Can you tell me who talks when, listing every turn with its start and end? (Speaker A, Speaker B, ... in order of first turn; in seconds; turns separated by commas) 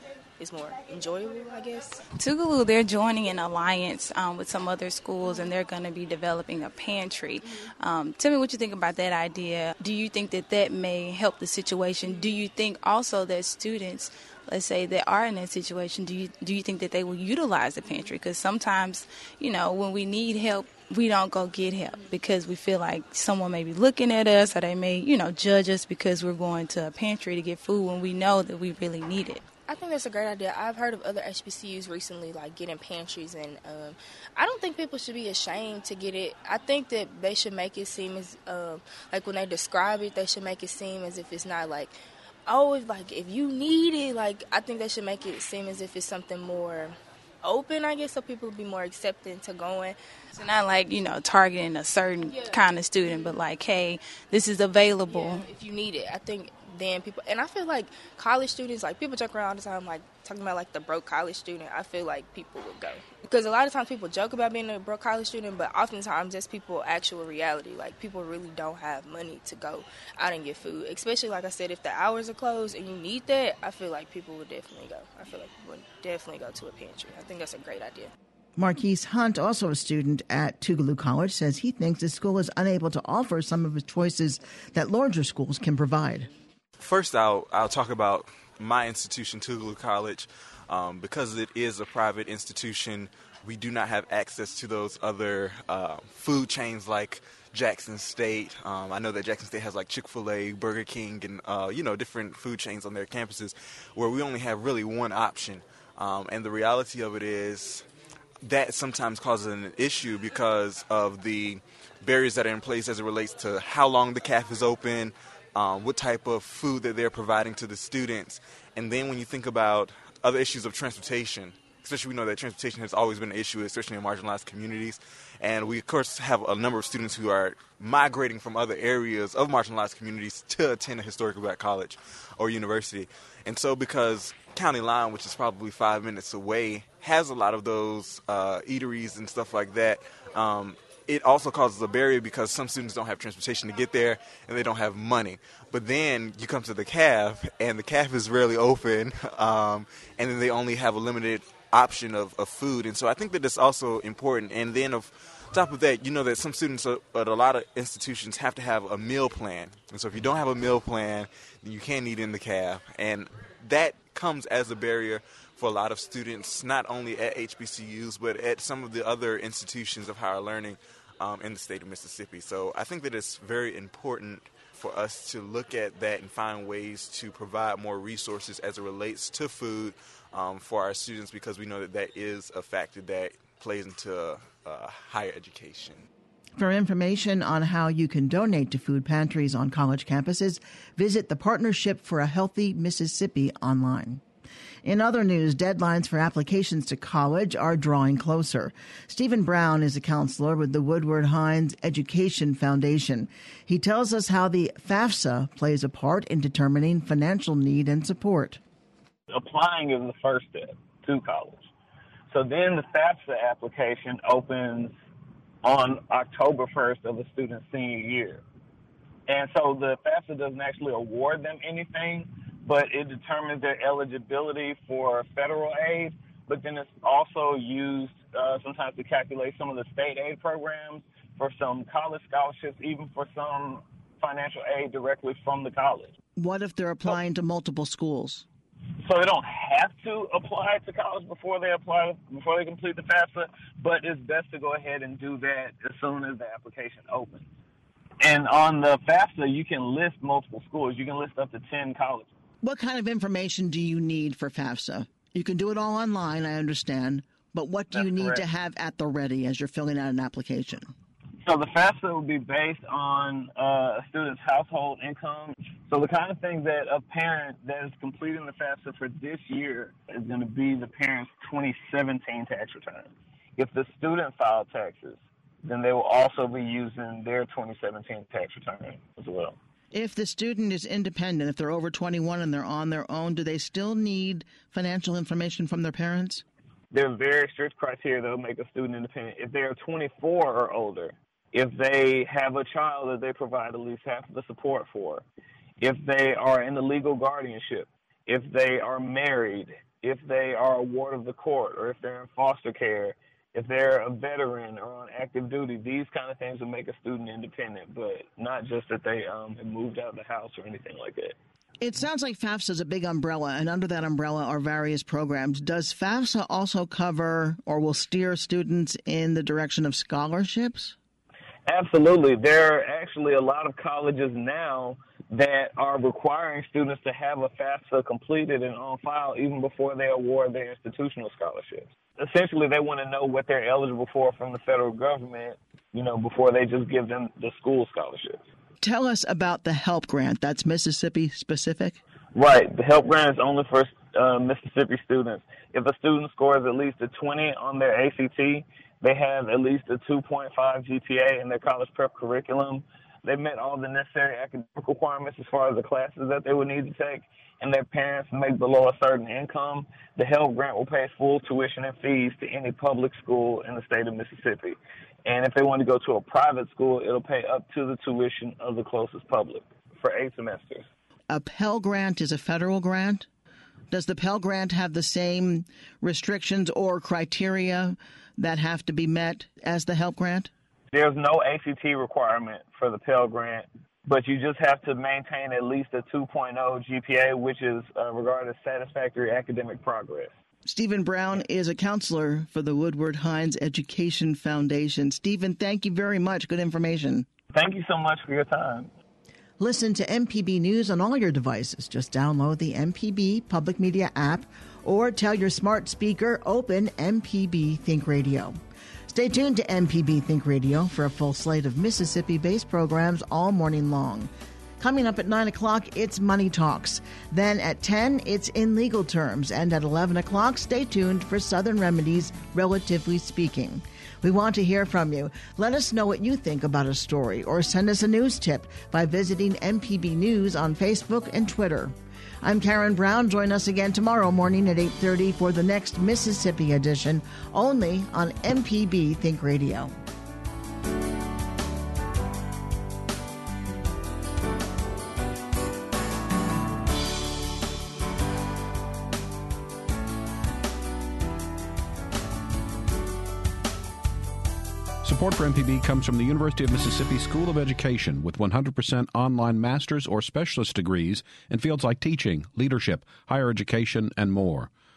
Speaker A: 0.4-2.0, Speaker B: 2.1-29.4, Speaker A: 5.2-5.5, Speaker A: 12.0-12.4, Speaker A: 17.8-18.1, Speaker A: 29.7-42.0, Speaker A: 42.5-50.0, Speaker B: 50.3-55.5, Speaker A: 52.3-53.4, Speaker A: 55.1-78.1, Speaker C: 78.6-86.3, Speaker D: 86.8-107.8, Speaker D: 108.4-186.0, Speaker C: 186.6-194.2, Speaker C: 194.8-208.6, Speaker E: 209.3-211.7, Speaker E: 212.3-214.9, Speaker E: 215.6-218.4, Speaker E: 219.3-236.1, Speaker C: 236.4-238.4, Speaker E: 239.0-247.5, Speaker E: 248.2-252.3, Speaker C: 252.6-260.9, Speaker E: 257.9-258.4, Speaker E: 261.4-279.6, Speaker C: 279.9-286.4, Speaker E: 286.9-295.2, Speaker E: 295.8-311.4, Speaker C: 311.8-321.0, Speaker E: 321.7-338.4, Speaker C: 338.8-342.0, Speaker E: 342.4-370.9, Speaker C: 371.3-373.3, Speaker C: 373.9-380.5, Speaker E: 380.9-390.3, Speaker C: 390.7-397.3, Speaker E: 397.5-398.9, Speaker C: 399.6-408.6, Speaker C: 409.1-439.9, Speaker F: 455.0-464.7